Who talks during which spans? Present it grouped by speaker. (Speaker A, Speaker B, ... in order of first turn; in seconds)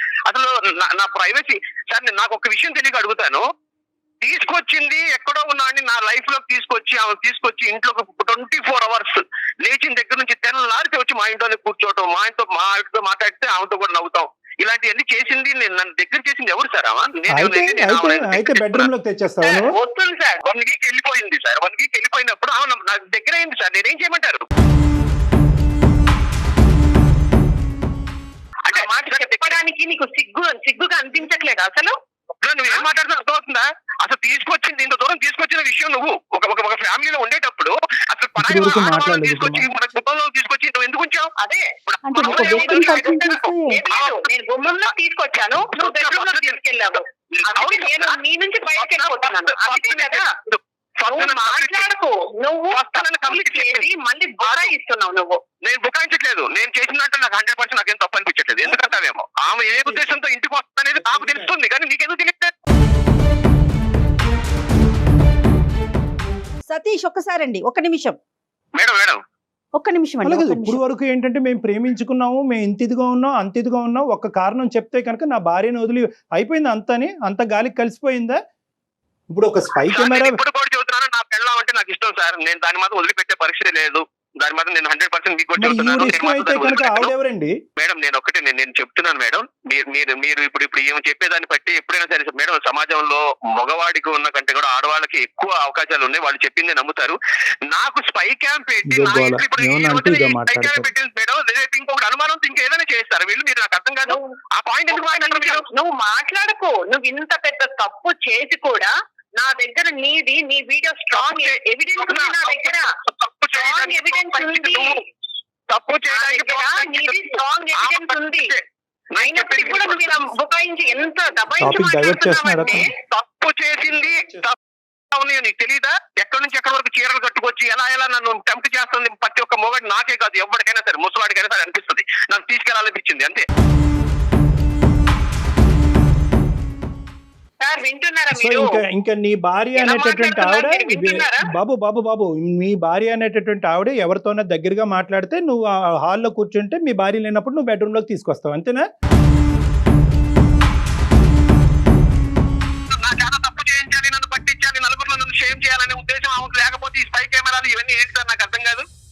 Speaker A: 0.3-3.4, 4.2-18.9, 20.4-24.4, 28.6-29.5, 32.4-41.3, 41.9-43.2, 43.9-44.2, 45.7-46.6, 47.4-48.2, 48.8-51.8, 52.7-53.9, 54.4-54.7, 55.6-62.5, 68.8-69.2, 79.9-87.1, 87.8-97.2, 97.7-105.6, 111.1-115.0, 115.7-117.1, 117.8-120.2, 122.6-124.5, 125.1-133.4, 152.9-158.8
Speaker B: 17.3-19.7, 38.4-39.7, 59.7-60.1, 60.9-61.5, 70.2-78.4, 79.3-80.4, 85.6-87.5, 98.9-100.9, 121.6-122.8, 124.0-124.4, 138.3-148.8
Speaker C: 19.4-20.4, 28.7-31.9, 41.4-50.3, 51.0-55.4, 104.9-112.9, 113.5-115.0, 116.1-118.5, 119.1-122.9, 137.6-138.7, 139.8-141.5
Speaker D: 42.0-43.8, 66.7-68.2, 69.8-70.8